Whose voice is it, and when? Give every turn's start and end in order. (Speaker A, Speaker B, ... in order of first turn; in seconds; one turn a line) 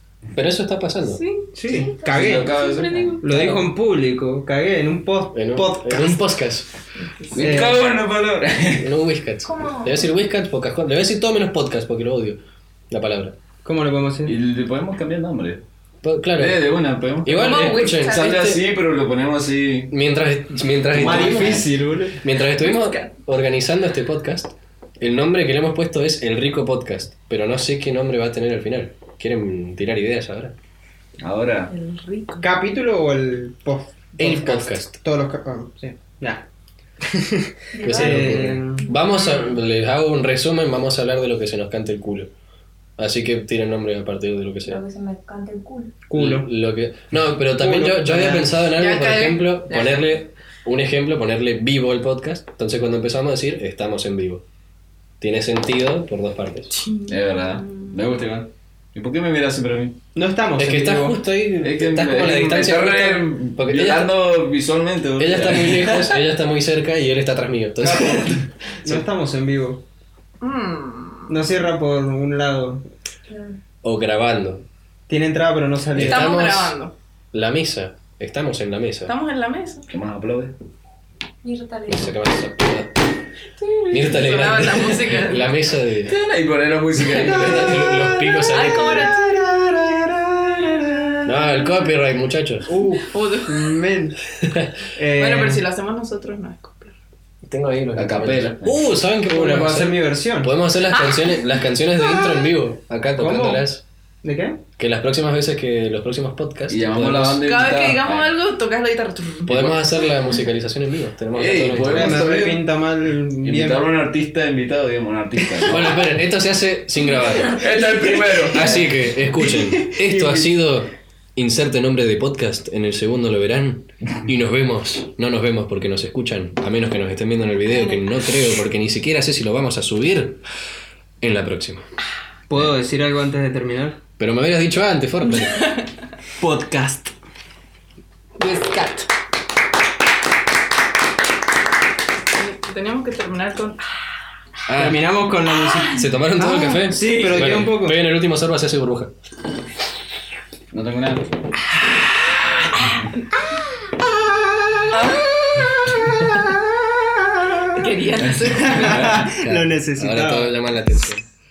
Speaker A: 0.3-1.2
Speaker B: 1.0-1.8
Speaker C: 1.6-2.5
Speaker D: 1.7-3.2
Speaker E: 1.7-3.2
Speaker B: 2.9-3.2
Speaker C: 3.2-6.2
Speaker A: 3.2-3.7
Speaker A: 5.3-6.7
Speaker B: 7.2-7.8
Speaker E: 7.3-8.9
Speaker C: 7.4-7.8
Speaker A: 8.8-12.4
Speaker D: 9.4-10.1
Speaker A: 12.9-13.4
Speaker C: 13.6-14.4
Speaker E: 14.2-15.6
Speaker A: 16.0-16.6
Speaker E: 16.4-19.9
Speaker A: 17.2-18.6
Speaker B: 17.3-18.4
Speaker A: 19.9-21.7
Speaker E: 20.9-21.8
Speaker C: 21.0-22.2
Speaker A: 22.2-30.6
Speaker E: 31.2-31.7
Speaker B: 31.7-32.4
Speaker D: 31.9-32.4
Speaker C: 32.4-36.5
Speaker A: 34.2-34.9
Speaker C: 37.0-38.8
Speaker D: 37.7-38.9
Speaker A: 37.8-42.3
Speaker A: 43.0-44.8
Speaker D: 44.6-46.0
Speaker C: 46.1-46.5
Speaker A: 46.2-54.4
Speaker C: 47.6-48.5
Speaker B: 48.8-50.1
Speaker A: 55.2-56.7
Speaker B: 56.7-58.0
Speaker E: 57.1-60.0
Speaker C: 60.1-61.2
Speaker A: 60.6-64.1
Speaker E: 61.6-66.1
Speaker A: 65.2-69.0
Speaker E: 67.8-68.4
Speaker C: 68.8-69.8
Speaker B: 70.4-71.4
Speaker C: 71.3-72.9
Speaker D: 73.3-73.5
Speaker A: 73.8-74.7
Speaker C: 75.1-76.3
Speaker A: 76.0-76.8
Speaker B: 76.0-77.0
Speaker A: 77.3-79.1
Speaker B: 79.0-79.9
Speaker E: 79.9-80.5
Speaker D: 81.4-82.2
Speaker A: 81.9-83.0
Speaker B: 83.6-85.5
Speaker A: 83.9-86.2
Speaker E: 86.1-88.0
Speaker A: 87.2-89.0
Speaker C: 87.2-91.3
Speaker B: 88.5-89.3
Speaker A: 91.2-92.7
Speaker C: 92.7-94.2
Speaker B: 93.1-93.8
Speaker A: 94.4-94.7
Speaker C: 94.9-95.6
Speaker B: 95.2-97.0
Speaker A: 97.4-103.8
Speaker E: 98.0-98.8
Speaker C: 99.3-100.5
Speaker B: 100.9-101.4
Speaker C: 103.2-103.7
Speaker C: 104.2-104.6
Speaker A: 104.8-107.4
Speaker E: 106.7-108.3
Speaker B: 107.4-109.5
Speaker A: 109.5-112.3
Speaker E: 109.5-109.8
Speaker E: 111.3-112.8
Speaker C: 111.9-113.8
Speaker E: 113.4-116.0
Speaker A: 115.7-117.7
Speaker E: 117.5-118.9
Speaker A: 118.5-130.4
Speaker A: 131.2-131.8
Speaker C: 132.5-134.0
Speaker A: 134.2-135.7
Speaker B: 135.5-135.9
Speaker C: 136.4-137.1
Speaker B: 138.4-139.1
Speaker B: 142.3-143.8
Speaker A: 144.7-145.0
Speaker C: 144.8-148.0
Speaker A: 145.9-149.1
Speaker E: 150.7-151.3
Speaker B: 154.9-155.2
Speaker C: 155.8-157.8
Speaker B: 157.8-159.2
Speaker C: 158.5-160.5
Speaker E: 158.8-159.2
Speaker A: 159.4-161.2